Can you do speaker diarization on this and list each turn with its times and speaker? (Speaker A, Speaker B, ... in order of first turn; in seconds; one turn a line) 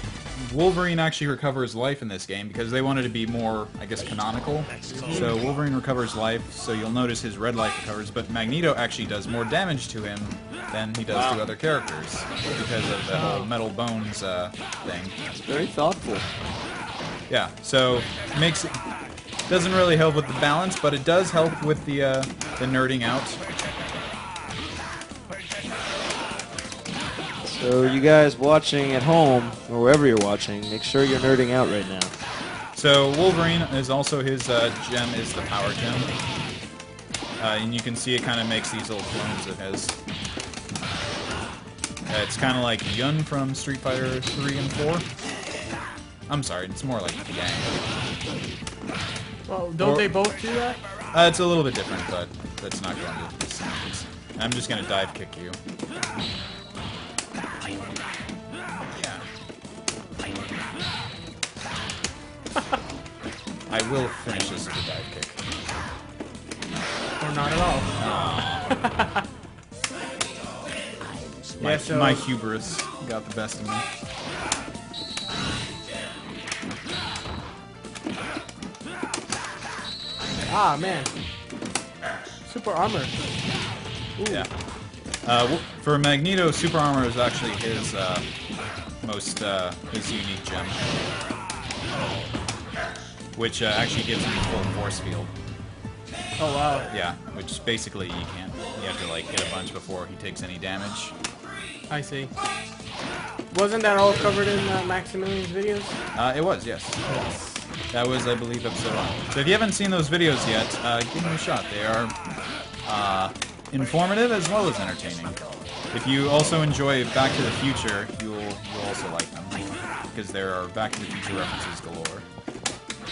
Speaker A: 0.3-15.1
Speaker B: 4.7-5.5
Speaker C: 5.0-5.4
Speaker B: 11.1-11.5
Speaker C: 13.1-13.5
Speaker B: 15.3-16.3
Speaker A: 17.3-18.8
Speaker A: 19.5-23.4
Speaker B: 27.4-32.1
Speaker A: 32.7-36.1
Speaker A: 37.4-40.0
Speaker A: 42.1-45.0
Speaker A: 46.3-47.9
Speaker C: 49.5-50.8
Speaker A: 49.8-50.1
Speaker A: 51.1-55.6
Speaker A: 58.9-59.2
Speaker A: 63.7-65.4
Speaker C: 67.2-69.2
Speaker A: 68.0-68.7
Speaker A: 71.6-73.8
Speaker C: 71.6-72.3
Speaker C: 80.4-81.1
Speaker C: 82.4-83.1
Speaker C: 84.2-84.5
Speaker A: 84.2-84.5
Speaker A: 85.2-88.2
Speaker A: 89.0-90.8
Speaker A: 93.3-95.3
Speaker C: 96.4-96.9
Speaker A: 96.9-101.1
Speaker C: 101.9-102.3
Speaker C: 103.5-106.0
Speaker A: 106.1-107.2
Speaker C: 107.1-107.5
Speaker A: 107.9-112.1
Speaker A: 112.8-115.4
Speaker A: 115.9-119.6
Speaker A: 120.1-122.2